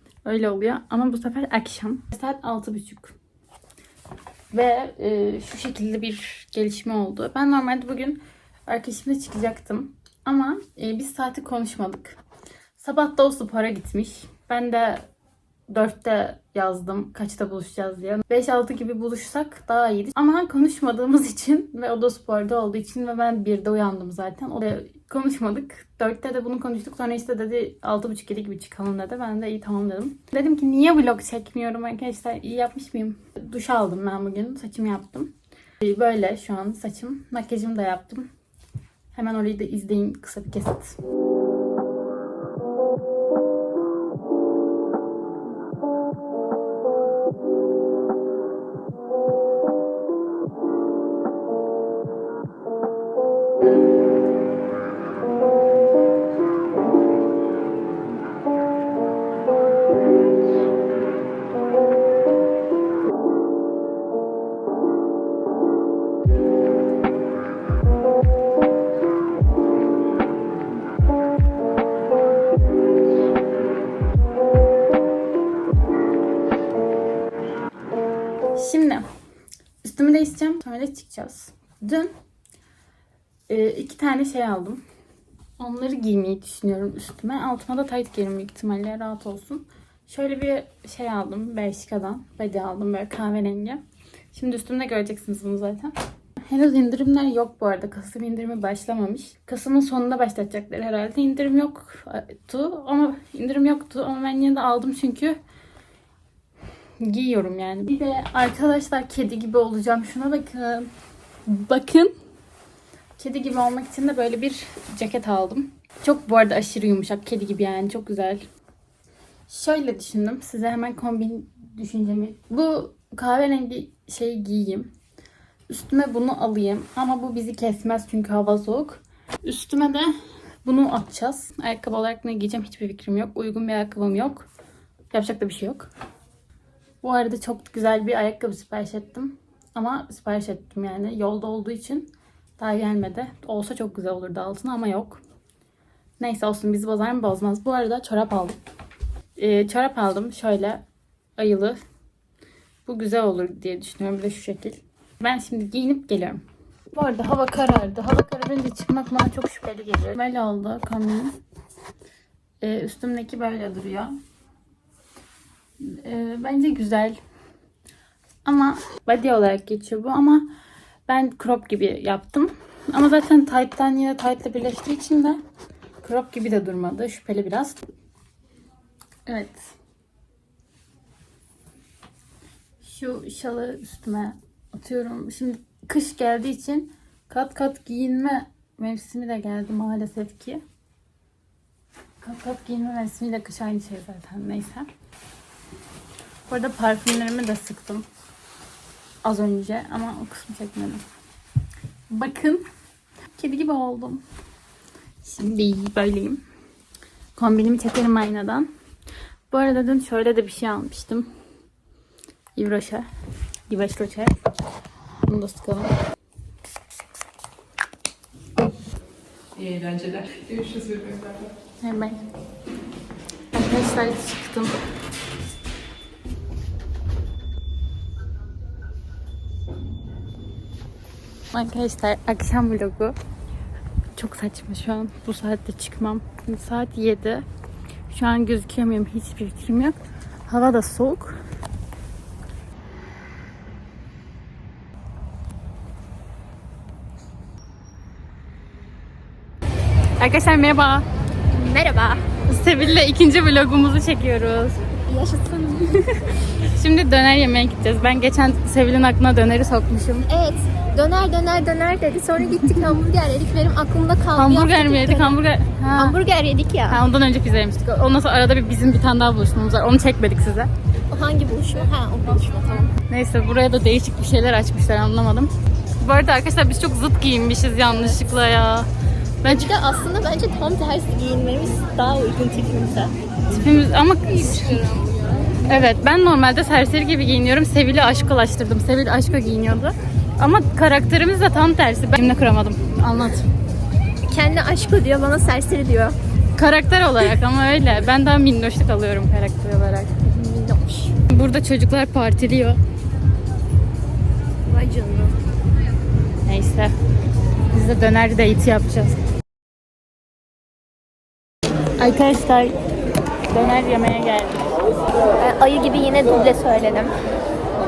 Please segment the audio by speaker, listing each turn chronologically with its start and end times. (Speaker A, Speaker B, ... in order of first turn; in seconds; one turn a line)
Speaker A: 0.2-3.1
Speaker A: 4.5-12.2
Speaker A: 12.8-15.1
Speaker A: 15.7-38.3
Speaker A: 39.1-41.0
Speaker A: 78.5-79.0
Speaker A: 79.8-82.1
Speaker A: 83.5-84.8
Speaker A: 85.6-93.8
Speaker A: 94.3-105.4
Speaker A: 107.0-110.9
Speaker A: 111.5-112.1
Speaker A: 113.2-118.5
Speaker A: 119.5-124.9
Speaker A: 125.7-130.1
Speaker A: 130.6-134.5
Speaker A: 135.1-135.9
Speaker A: 137.0-145.2
Speaker A: 146.2-148.6
Speaker A: 149.4-150.8
Speaker A: 151.4-151.8
Speaker A: 152.9-161.4
Speaker A: 162.6-164.1
Speaker A: 165.8-167.2
Speaker A: 168.4-170.5
Speaker A: 171.1-175.4
Speaker A: 176.0-177.8
Speaker A: 179.3-179.7
Speaker A: 182.8-190.6
Speaker A: 192.2-194.9
Speaker A: 196.5-198.1
Speaker A: 199.2-201.0
Speaker A: 202.1-202.6
Speaker A: 203.3-204.2
Speaker A: 205.2-206.4
Speaker A: 207.4-208.7
Speaker A: 209.5-211.3
Speaker A: 212.6-213.1
Speaker A: 213.7-214.3
Speaker A: 215.2-215.9
Speaker B: 219.6-221.5
Speaker A: 221.8-222.2
Speaker A: 223.5-224.7
Speaker A: 231.5-233.2
Speaker A: 234.2-237.5
Speaker A: 238.1-241.4
Speaker A: 250.2-251.1
Speaker C: 251.5-252.2
Speaker A: 252.5-254.8
Speaker C: 255.1-256.1
Speaker A: 256.6-260.3
Speaker C: 260.3-265.4
Speaker A: 264.4-266.2
Speaker C: 265.9-267.0
Speaker A: 266.9-270.7
Speaker C: 271.1-272.9
Speaker A: 273.1-278.9
Speaker A: 279.4-279.8
Speaker C: 279.4-283.1
Speaker A: 283.5-284.9
Speaker C: 284.5-285.6
Speaker A: 285.7-293.5
Speaker C: 294.3-296.2
Speaker A: 296.6-300.2
Speaker C: 300.2-301.1
Speaker A: 301.3-302.8
Speaker C: 304.7-305.4
Speaker A: 306.5-306.9
Speaker A: 307.7-309.2
Speaker C: 312.0-312.7
Speaker A: 313.5-314.7
Speaker C: 315.4-317.1